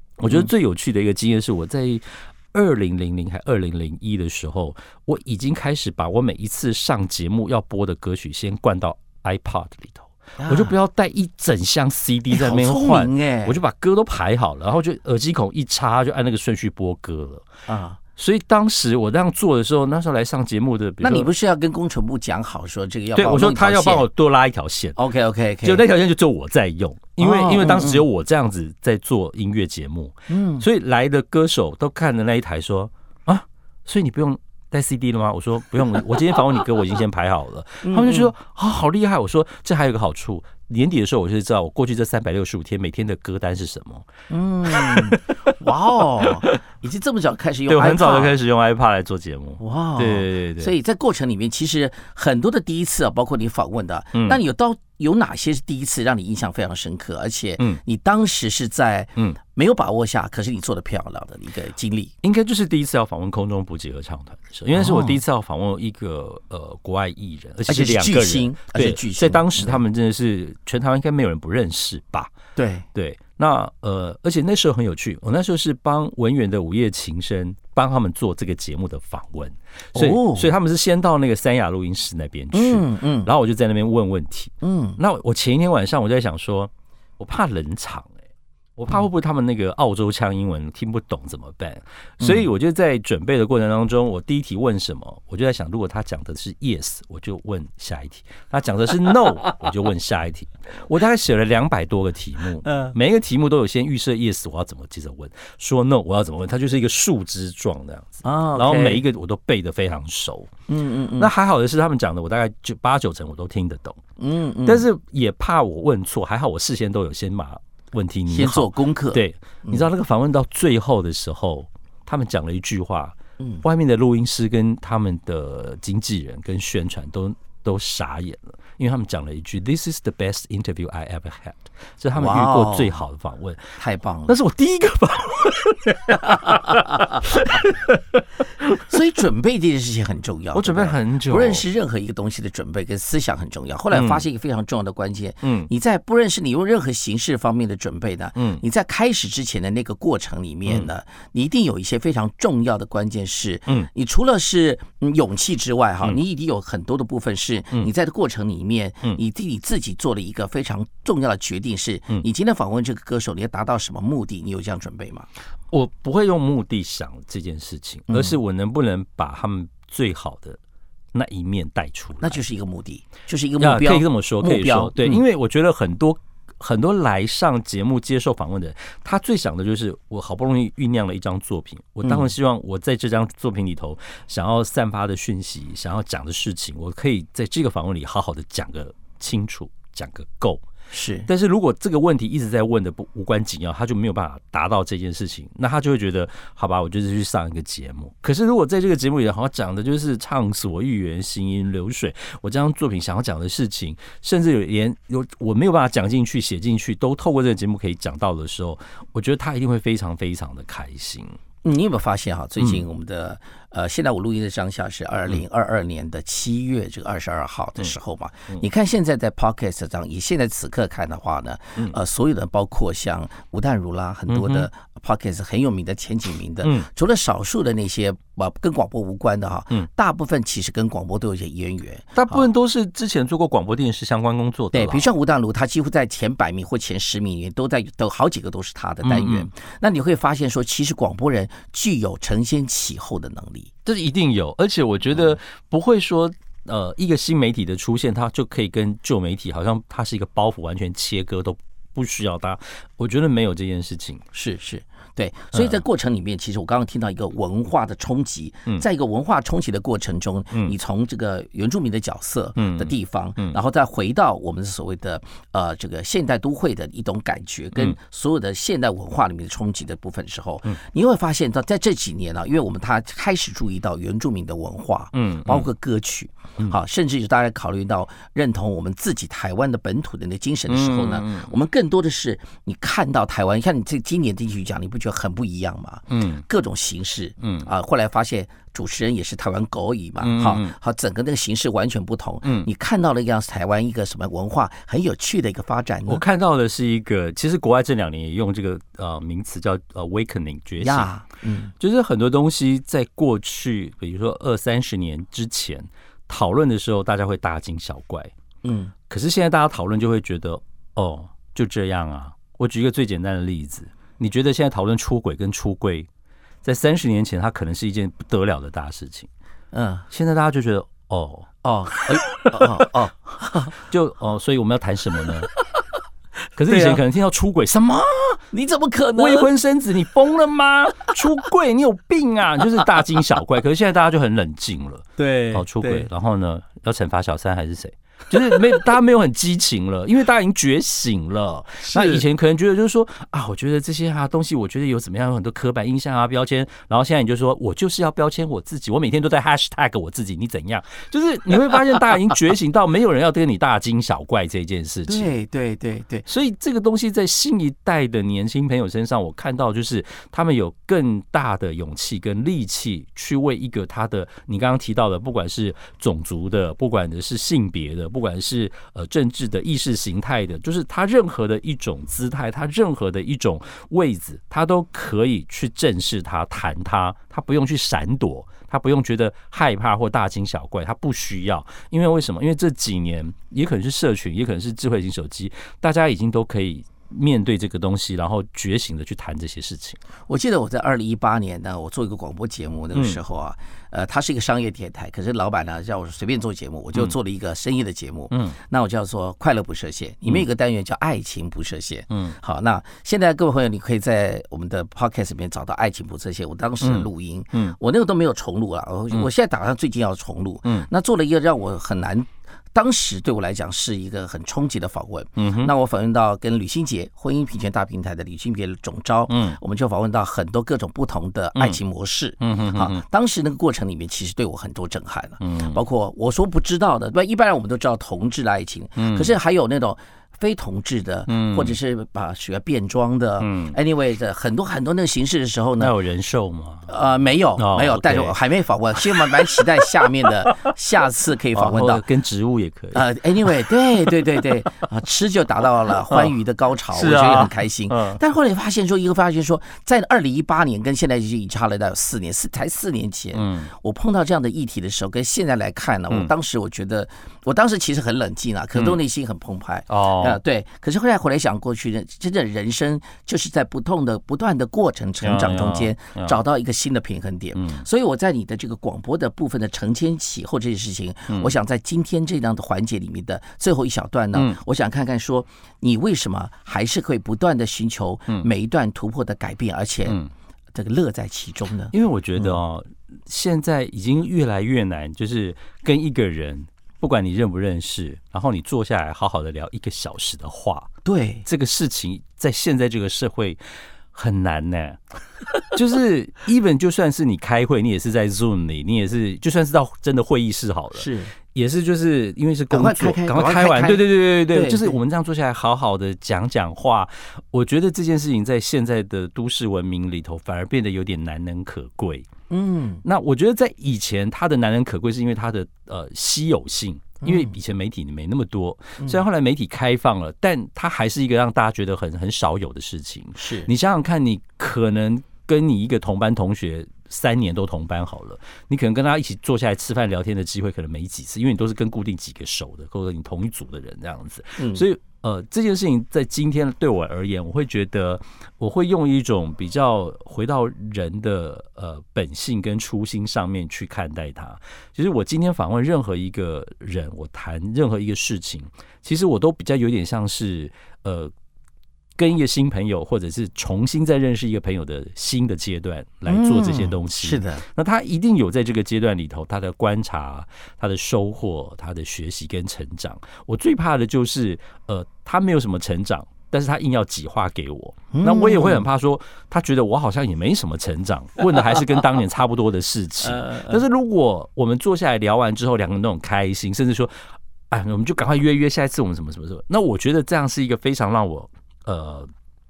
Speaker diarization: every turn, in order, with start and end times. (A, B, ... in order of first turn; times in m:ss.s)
0:00.2-0:17.4 A
0:10.4-0:10.8 B
0:12.3-0:13.6 B
0:17.7-0:18.0 B
0:18.2-0:21.3 A
0:21.0-0:24.1 B
0:23.2-0:25.0 A
0:25.0-0:25.8 B
0:25.6-0:44.1 A
0:27.2-0:28.0 B
0:30.3-0:30.7 B
0:37.8-0:38.3 B
0:44.3-0:48.4 B
0:44.7-0:45.5 A
0:46.2-0:46.6 A
0:47.7-0:50.8 A
0:49.6-1:02.1 B
0:54.1-0:54.4 A
1:02.2-1:12.3 A
1:04.7-1:05.2 B
1:07.7-1:09.8 B
1:12.6-1:12.9 B
1:12.9-1:28.1 A
1:20.0-1:20.5 B
1:22.5-1:23.3 B
1:24.6-1:25.0 B
1:28.8-1:50.5 A
1:32.2-1:32.5 B
1:42.7-1:42.9 B
1:48.2-1:49.0 B
1:50.7-1:51.3 B
1:51.2-1:54.0 A
1:54.2-1:54.9 B
1:54.6-2:13.7 A
1:58.3-1:59.9 B
2:03.4-2:03.6 B
2:12.2-2:13.0 B
2:13.8-2:14.4 B
2:14.3-2:18.8 A
2:18.8-2:45.3 B
2:20.5-2:21.7 A
2:23.9-2:24.2 A
2:25.4-2:25.7 A
2:28.4-2:28.6 A
2:45.7-2:50.6 A
2:48.1-2:48.4 B
2:51.1-2:52.4 A
2:52.2-2:55.2 B
2:53.6-3:10.6 A
3:02.0-3:02.3 B
3:10.9-3:11.3 B
3:11.3-3:31.4 A
3:31.6-3:52.5 B
3:44.3-3:44.7 A
3:46.6-3:46.9 A
3:52.2-3:55.1 A
3:54.7-4:03.7 B
3:59.0-3:59.5 A
4:03.8-4:14.2 A
4:14.3-4:56.2 B
4:15.5-4:15.8 A
4:22.6-4:23.6 A
4:35.1-4:35.7 A
4:40.7-4:41.5 A
4:46.1-4:46.4 A
4:47.4-4:47.7 A
4:50.2-4:50.7 A
4:52.4-4:52.7 A
4:56.1-5:01.1 A
5:00.8-5:01.7 B
5:01.8-5:08.3 A
5:08.6-5:08.9 B
5:09.1-5:16.1 A
5:16.6-5:19.3 A
5:19.7-5:20.1 B
5:20.1-5:21.5 A
5:21.6-5:23.7 B
5:23.7-5:25.5 A
5:26.6-5:28.4 A
5:26.7-5:27.0 B
5:28.5-5:29.5 B
5:29.2-5:55.3 A
5:35.2-5:36.1 B
5:41.9-5:42.2 B
5:55.1-5:56.3 B
5:56.3-6:30.0 A
6:30.3-7:15.9 B
6:32.9-6:33.2 A
6:38.3-6:38.6 A
6:42.1-6:42.4 A
6:46.8-6:47.8 A
6:55.4-6:55.7 A
6:59.3-6:59.6 A
7:02.4-7:03.0 A
7:05.4-7:05.8 A
7:09.0-7:09.3 A
7:11.3-7:11.8 A
7:13.4-7:13.8 A
7:15.8-7:16.9 A
7:16.9-7:22.0 B
7:17.6-7:18.4 A
7:19.0-7:19.7 A
7:21.5-7:23.5 A
7:22.9-8:00.2 B
7:26.1-7:26.3 A
7:26.9-7:28.2 A
7:33.3-7:33.7 A
7:39.9-7:40.4 A
7:45.2-7:46.4 A
7:47.5-7:47.8 A
7:51.3-7:51.5 A
7:54.3-7:54.6 A
8:00.1-8:00.3 A
8:00.8-8:02.6 B
8:01.9-8:10.9 A
8:11.0-8:11.5 B
8:11.4-8:13.6 A
8:14.1-8:15.0 A
8:15.7-8:32.3 A
8:21.0-8:21.3 B
8:22.7-8:25.0 B
8:32.5-8:33.0 B
8:33.0-9:11.3 A
8:37.2-8:37.5 B
8:43.4-8:43.7 B
8:54.6-8:54.9 B
9:12.2-9:37.1 A
9:16.2-9:17.6 B
9:28.1-9:28.9 B
9:33.3-9:33.8 B
9:37.7-9:42.3 A